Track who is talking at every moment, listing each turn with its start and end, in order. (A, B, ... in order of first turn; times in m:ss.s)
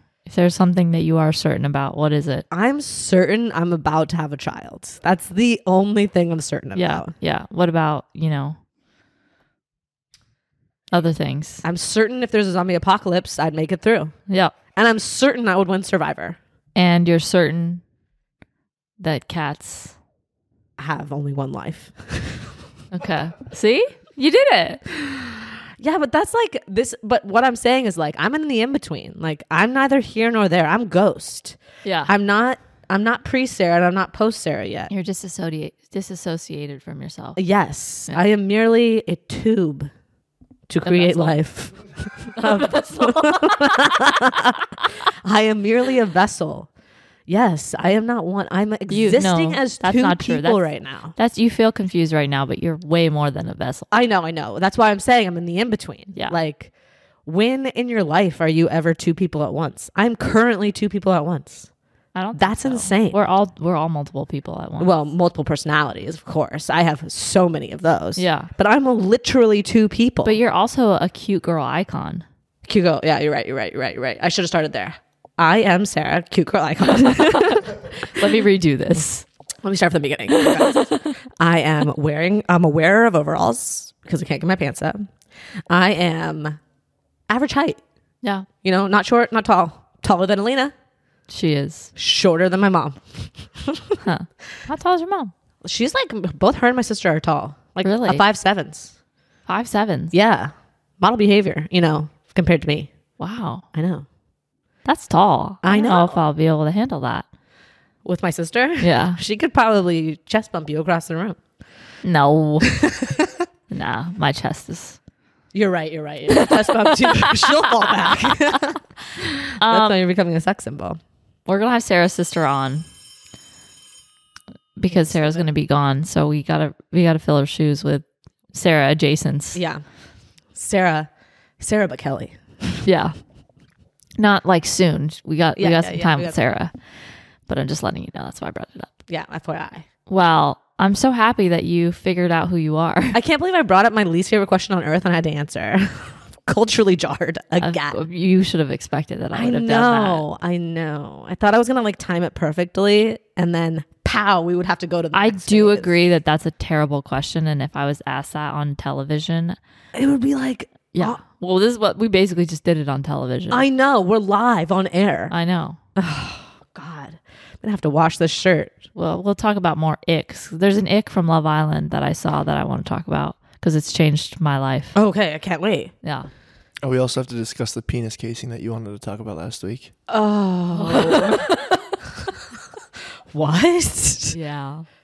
0:00.3-0:02.4 A
0:02.5-0:07.1 B
0:06.8-0:08.6 A
0:10.9-0:11.6 A
0:11.6-0:14.2 B
0:14.8-0:16.4 B
0:16.8-0:17.8 A
0:19.0-0:19.9 A
0:20.8-0:22.5 B
0:22.9-0:24.8 A
0:24.9-0:34.9 B
0:31.8-0:32.1 A
0:34.9-0:37.4 A
0:37.4-0:39.9 B
0:40.7-0:44.6 B
0:40.8-0:41.4 A
0:42.4-0:44.1 A
0:45.2-0:46.7 B
0:47.3-0:51.2 B
0:48.9-0:53.9 A
0:53.9-0:56.7 B
0:57.2-1:01.7 B
1:02.2-1:04.9 A
1:02.4-1:03.2 B
1:04.8-1:10.4 B
1:08.2-1:08.5 A
1:10.2-1:12.2 A
1:12.7-1:18.2 B
1:17.0-1:19.2 A
1:19.6-1:25.1 B
1:20.3-1:21.1 A
1:25.7-1:26.6 B
1:27.3-1:27.8 B
1:28.6-1:30.7 B
1:31.3-1:31.9 A
1:32.0-1:34.0 B
1:34.0-1:35.3 A
1:35.6-1:38.9 B
1:37.8-1:38.2 A
1:39.5-1:40.1 A
1:40.1-1:42.9 B
1:43.2-1:43.6 A
1:43.7-1:44.1 B
1:44.9-1:47.2 A
1:45.6-1:46.2 B
1:48.0-1:51.4 B
1:48.8-1:49.2 A
1:52.0-1:52.8 A
1:52.7-1:53.4 B
1:53.7-1:55.0 A
1:55.5-2:01.0 B
1:56.3-1:58.8 A
1:59.6-2:00.0 A
2:01.5-2:02.8 A
2:04.8-2:09.6 A
2:04.9-2:05.5 B
2:09.6-2:09.8 B
2:10.5-2:12.8 B
2:12.8-2:13.2 A
2:14.2-2:16.7 A
2:15.6-2:16.4 B
2:17.5-2:19.0 A
2:19.1-2:19.9 B
2:20.1-2:23.2 A
2:23.1-2:28.0 B
2:27.6-2:30.2 A
2:29.3-2:35.9 B
2:35.1-2:39.6 A
2:40.0-2:41.2 B
2:40.9-2:43.7 A
2:43.5-2:45.3 B
2:45.3-2:45.8 A
2:46.0-2:48.8 B
2:49.0-2:55.0 A
2:55.0-2:55.9 B
2:56.0-2:56.3 A
2:56.8-2:59.9 C
3:00.1-3:02.3 B
3:00.8-3:01.5 A
3:03.3-3:04.4 B
3:04.3-3:04.9 A